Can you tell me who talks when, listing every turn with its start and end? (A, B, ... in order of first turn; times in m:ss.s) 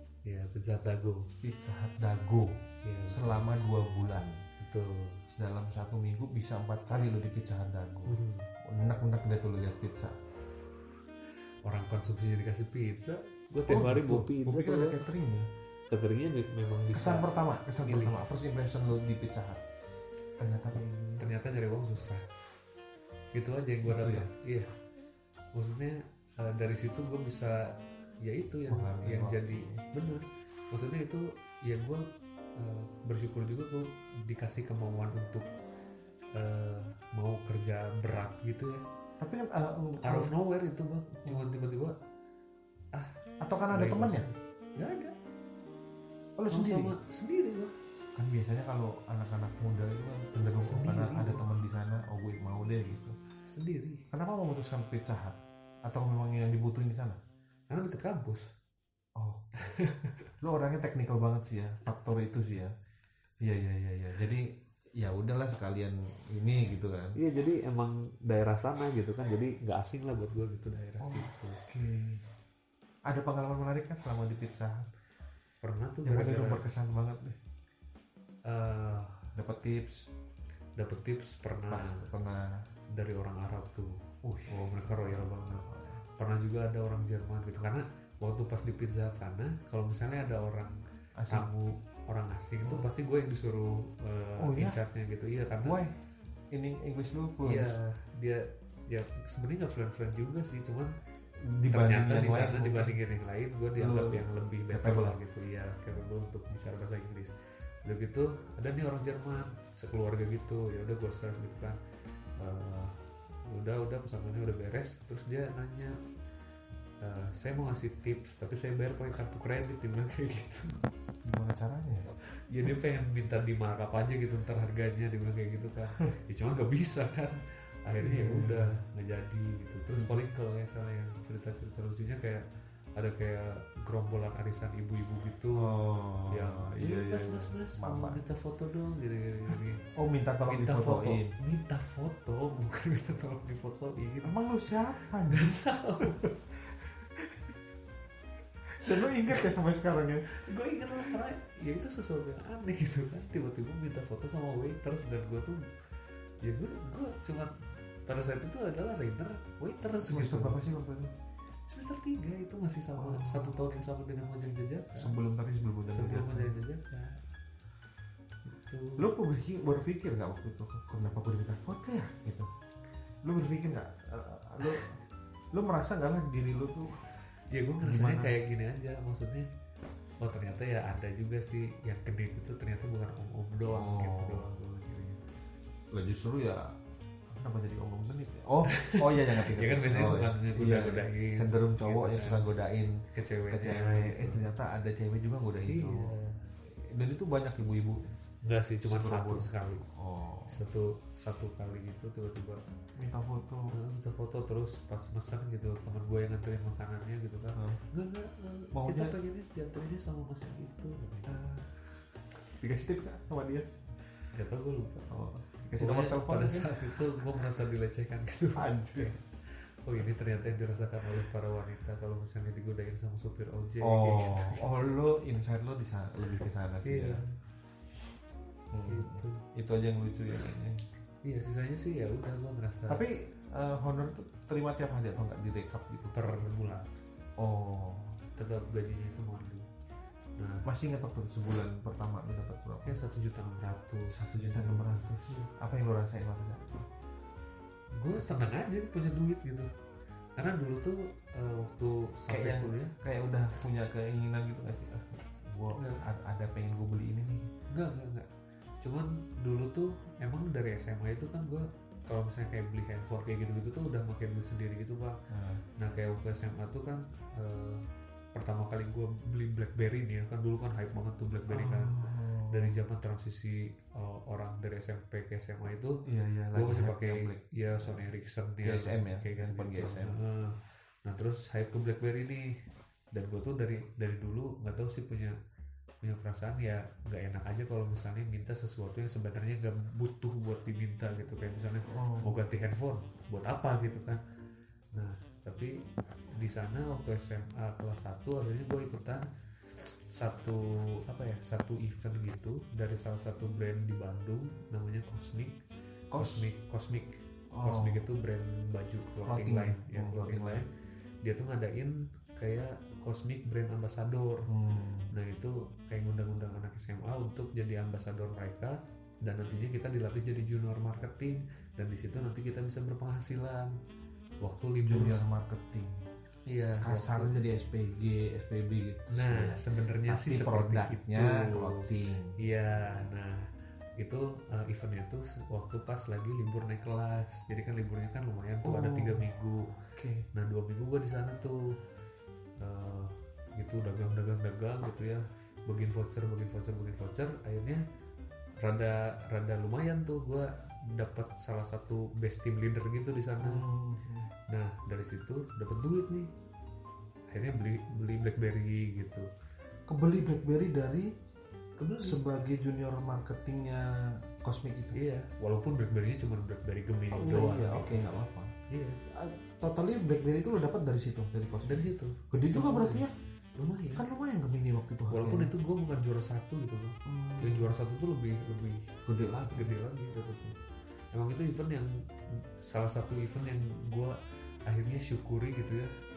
0:00.2-0:01.3 A
0:01.4-0:02.5 B
0:02.8-0:03.4 A
0:03.1-0:04.4 B
0:04.6-0:05.2 A
0:05.3-0:10.2 B
0:08.0-0:08.5 A
0:11.6-0:15.0 A
0:13.7-0:15.5 B
0:15.9-0:18.2 A
0:16.9-0:19.6 B
0:20.4-0:21.3 B
0:21.2-0:22.2 A
0:23.3-0:24.7 A
0:23.8-0:24.3 B
0:25.5-0:35.5 A
0:28.7-0:29.8 B
0:36.3-0:38.8 A
0:39.2-0:40.3 B
0:40.0-0:42.0 A
0:41.2-0:41.5 B
0:42.9-0:45.1 A
0:43.4-0:44.3 B
0:46.4-0:46.9 B
0:46.5-0:47.7 A
0:48.1-0:53.2 B
0:50.6-0:51.4 A
0:53.5-0:54.0 A
0:54.1-0:57.2 B
0:57.7-0:58.5 A
0:59.1-0:59.5 B
0:59.6-1:00.3 A
1:00.4-1:02.7 B
1:03.4-1:07.2 B
1:07.2-1:11.6 A
1:11.0-1:12.2 B
1:13.0-1:14.9 B
1:15.6-1:16.6 A
1:16.0-1:17.4 B
1:18.4-1:19.3 A
1:19.3-1:20.1 B
1:20.8-1:22.1 A
1:21.7-1:22.6 B
1:22.9-1:25.6 A
1:24.2-1:26.0 B
1:26.2-1:30.8 A
1:31.2-1:31.5 B
1:31.3-1:35.8 A
1:32.6-1:32.9 B
1:34.4-1:34.8 B
1:35.6-1:35.9 B
1:36.5-1:37.8 B
1:37.4-1:40.9 A
1:41.5-1:43.0 B
1:41.6-1:51.8 A
1:43.8-1:45.2 B
1:52.4-1:56.0 A
1:57.0-2:00.8 A
2:01.2-2:02.1 B
2:02.5-2:12.4 A
2:08.0-2:08.7 B
2:10.0-2:10.2 B
2:13.0-2:15.8 A
2:15.5-2:18.2 B
2:16.3-2:19.8 A
2:19.9-2:21.3 B
2:20.4-2:24.3 A
2:24.2-2:27.4 B
2:25.3-2:26.2 A
2:28.7-2:30.3 B
2:28.8-2:29.5 A
2:30.3-2:35.6 A
2:36.4-2:40.6 A
2:40.0-2:41.1 B
2:41.7-2:45.1 A
2:43.0-2:43.6 B
2:44.9-2:46.5 B
2:45.9-2:47.2 A
2:48.4-2:49.1 A
2:49.0-2:52.5 B
2:53.2-2:55.0 B
2:55.5-2:57.0 B
2:57.5-2:59.5 A
2:57.8-2:58.3 B
3:00.2-3:05.2 A
3:03.7-3:04.5 B
3:05.9-3:06.7 B
3:07.3-3:12.9 B
3:08.7-3:12.4 A
3:13.1-3:14.4 A
3:13.5-3:16.1 B
3:15.7-3:16.4 A
3:16.6-3:18.1 B
3:18.4-3:19.8 A
3:18.8-3:20.6 B
3:20.5-3:22.6 A
3:23.0-3:23.7 B
3:23.7-3:31.4 A
3:27.6-3:27.8 B
3:28.7-3:29.2 B
3:31.3-3:31.8 B
3:32.5-3:33.8 B
3:34.3-3:35.1 A
3:35.1-3:37.6 B
3:35.8-3:44.7 A
3:38.6-3:39.1 B
3:43.8-3:47.2 B
3:46.8-3:47.3 A
3:48.7-3:50.8 B
3:48.8-3:49.4 A
3:51.2-3:53.0 A
3:52.9-3:56.4 B
3:56.1-3:56.9 A
3:57.4-3:58.1 B
3:58.4-3:59.7 A
4:00.4-4:00.7 A
4:00.6-4:03.0 B
4:02.8-4:05.5 A
4:04.1-4:06.8 B
4:08.0-4:09.7 A
4:08.2-4:08.5 B
4:10.4-4:12.9 A
4:12.3-4:17.5 B
4:15.7-4:16.0 A
4:17.7-4:18.3 A
4:18.8-4:25.2 A
4:25.3-4:25.6 B
4:25.8-4:36.0 A
4:31.5-4:32.8 B
4:36.0-4:38.0 B
4:36.5-4:42.5 A
4:38.6-4:40.1 B
4:43.1-4:45.3 A
4:46.0-4:54.2 A
4:51.9-4:52.4 B
4:54.9-4:55.8 A
4:56.3-4:59.3 A
5:00.1-5:05.6 A
5:06.1-5:06.5 B
5:06.1-5:10.7 A
5:07.5-5:08.0 B
5:09.2-5:10.6 B
5:11.2-5:14.5 A
5:14.5-5:15.1 B
5:15.1-5:23.7 A
5:24.4-5:25.2 A
5:24.8-5:26.0 B
5:26.5-5:27.4 A
5:26.8-5:32.4 B
5:29.1-5:31.9 A
5:32.4-5:39.7 A
5:38.6-5:39.3 B
5:39.9-5:40.2 B
5:40.3-5:41.6 A
5:42.6-5:47.8 A
5:48.6-5:53.6 A
5:53.4-5:54.3 B
5:54.5-5:56.3 A
5:57.3-5:59.3 A
5:59.9-6:01.1 B
6:01.8-6:02.2 A
6:02.0-6:05.0 B
6:04.9-6:07.9 A
6:07.1-6:08.5 B
6:08.7-6:09.0 A
6:09.1-6:13.1 B
6:11.6-6:13.0 A
6:13.6-6:14.0 A
6:13.9-6:15.5 B
6:15.1-6:18.9 A
6:17.0-6:17.7 B
6:19.0-6:19.8 B
6:19.4-6:20.6 A
6:21.1-6:21.9 A
6:22.6-6:25.9 A